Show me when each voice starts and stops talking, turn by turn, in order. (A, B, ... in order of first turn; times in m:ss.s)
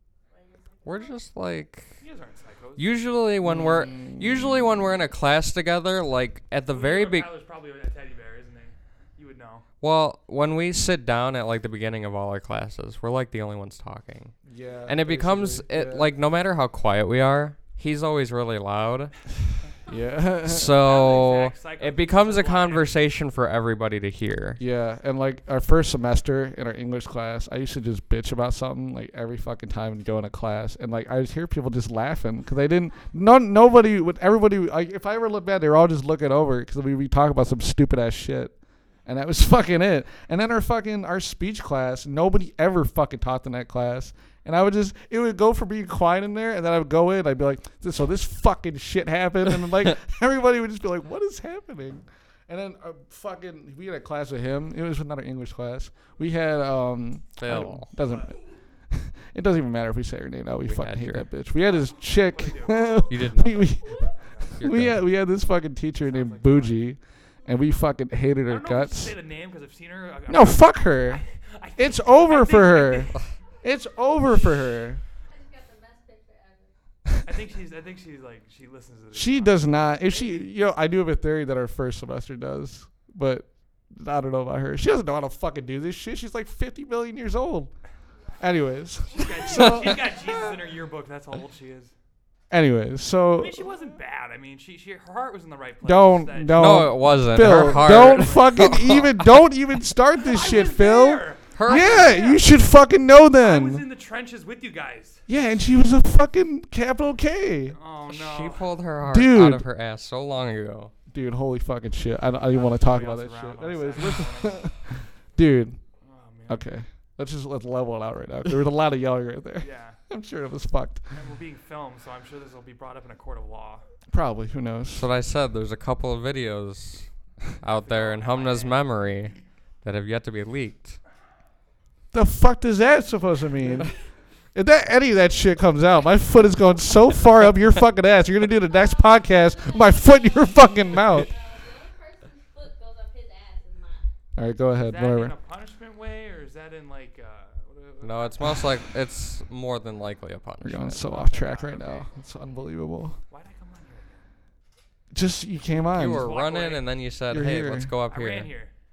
0:00.3-0:01.2 A
0:00.8-0:02.0 B
0:02.0-0:02.9 C
0:02.8-0:07.3 B
0:03.4-0:05.0 D
0:06.7-0:09.7 C
0:09.8-0:19.3 B
0:14.4-0:16.1 D
0:19.9-0:20.8 D
0:20.4-0:24.6 B
0:20.8-0:23.0 C
0:24.6-0:38.5 D
0:39.0-0:58.4 D
0:57.4-0:57.9 B
0:58.0-0:58.3 C
0:58.9-1:09.1 D
1:00.6-1:01.3 B
1:01.7-1:03.1 C
1:03.1-1:03.8 B
1:03.8-1:04.2 A
1:04.6-1:05.0 B
1:06.0-1:06.8 C
1:07.4-1:07.7 A
1:08.5-1:13.3 C
1:10.3-1:11.2 D
1:11.8-1:15.0 D
1:13.5-1:14.0 E
1:15.2-1:16.7 E
1:17.2-1:19.6 C
1:19.1-1:27.7 D
1:28.4-1:30.5 D
1:29.1-1:29.9 A
1:29.1-1:31.9 C
1:32.5-1:33.7 D
1:33.4-1:38.5 C
1:35.8-1:43.8 D
1:36.5-1:39.2 B
1:40.2-1:42.4 C
1:41.5-1:42.3 B
1:43.4-1:45.2 C
1:45.3-1:47.8 D
1:47.7-1:48.7 C
1:48.1-1:50.9 B
1:49.0-1:49.6 D
1:51.1-1:55.8 D
1:52.5-1:54.8 C
1:56.0-1:56.6 C
1:56.5-2:01.2 D
1:59.6-2:00.0 C
2:01.1-2:03.9 C
2:04.1-2:05.1 D
2:04.9-2:11.0 B
2:07.6-2:08.8 C
2:12.1-2:13.9 D
2:14.5-2:21.3 D
2:18.6-2:24.1 E
2:24.4-2:25.4 D
2:24.8-2:28.3 C
2:27.7-2:28.7 D
2:28.0-2:31.2 B
2:30.6-2:33.2 D
2:31.0-2:32.1 C
2:33.3-2:34.2 C
2:35.1-2:36.3 D
2:35.9-2:38.5 B
2:36.0-2:36.9 C
2:37.3-2:37.9 D
2:38.1-2:38.7 C